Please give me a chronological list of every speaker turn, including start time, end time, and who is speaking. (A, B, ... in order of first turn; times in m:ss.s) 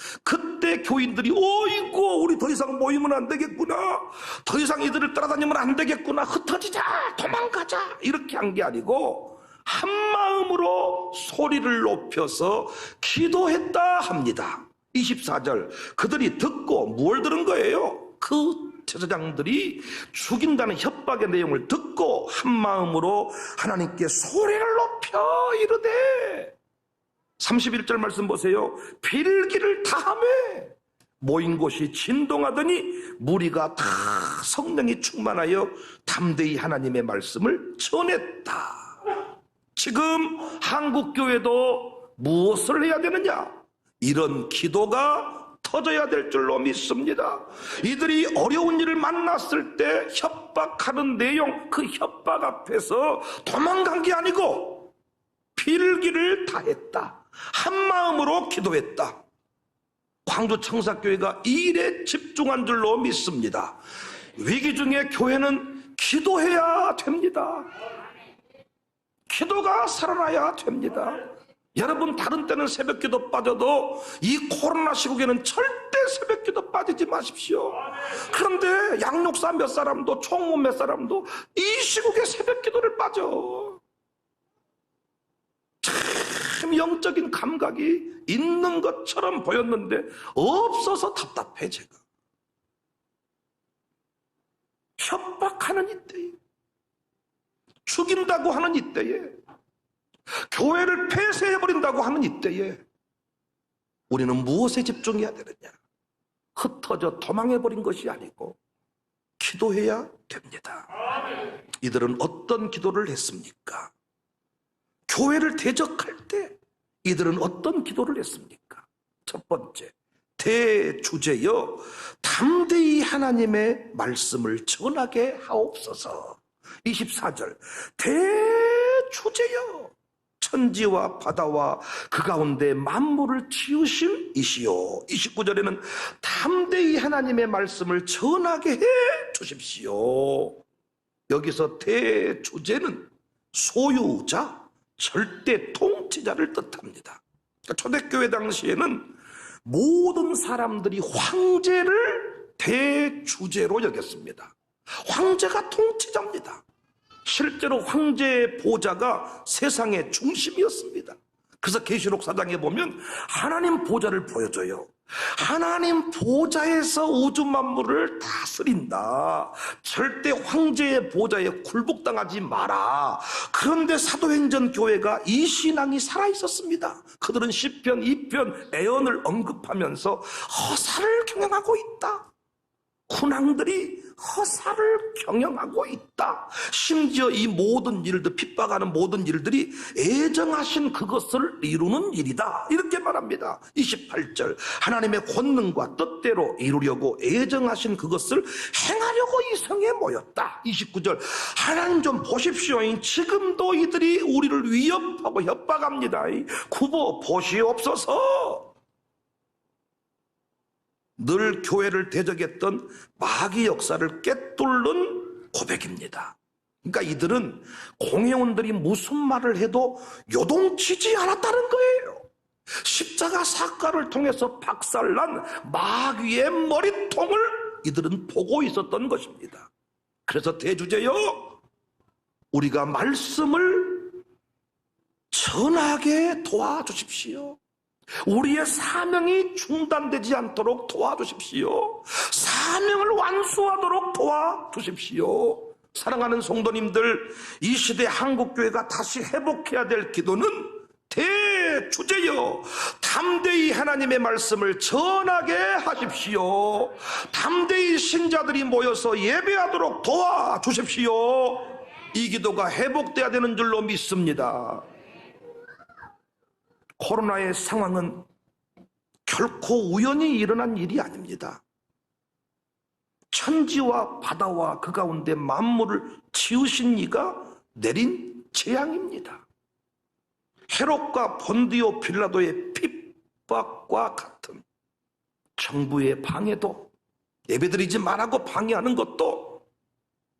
0:00.2-0:26.6 A
0:27.4-0:39.0 A
0:39.8-0:54.9 A
0:55.6-0:59.2 A
1:00.3-1:03.8 A
1:04.4-1:07.7 A
1:09.3-1:11.2 A
1:11.8-1:23.8 A
1:25.8-1:32.0 A
1:35.0-1:36.4 A
1:37.9-1:39.3 A
1:40.5-1:42.8 A
1:44.1-1:45.8 A
1:46.6-1:48.6 A
1:49.4-1:50.9 A
1:51.8-1:53.9 A
1:55.1-2:20.6 A
2:21.3-2:29.1 A
2:29.6-2:36.6 A
2:37.2-3:02.3 A
3:03.1-3:28.7 A
3:31.2-3:42.3 A
3:42.8-3:49.7 A
3:50.3-3:51.6 A
3:52.5-3:54.2 A
3:55.3-3:57.6 A
3:58.3-4:24.8 A
4:27.0-4:28.2 A
4:29.3-4:31.6 A
4:33.3-4:39.4 A
4:40.7-4:44.6 A
4:45.6-4:46.9 A
4:47.5-4:49.6 A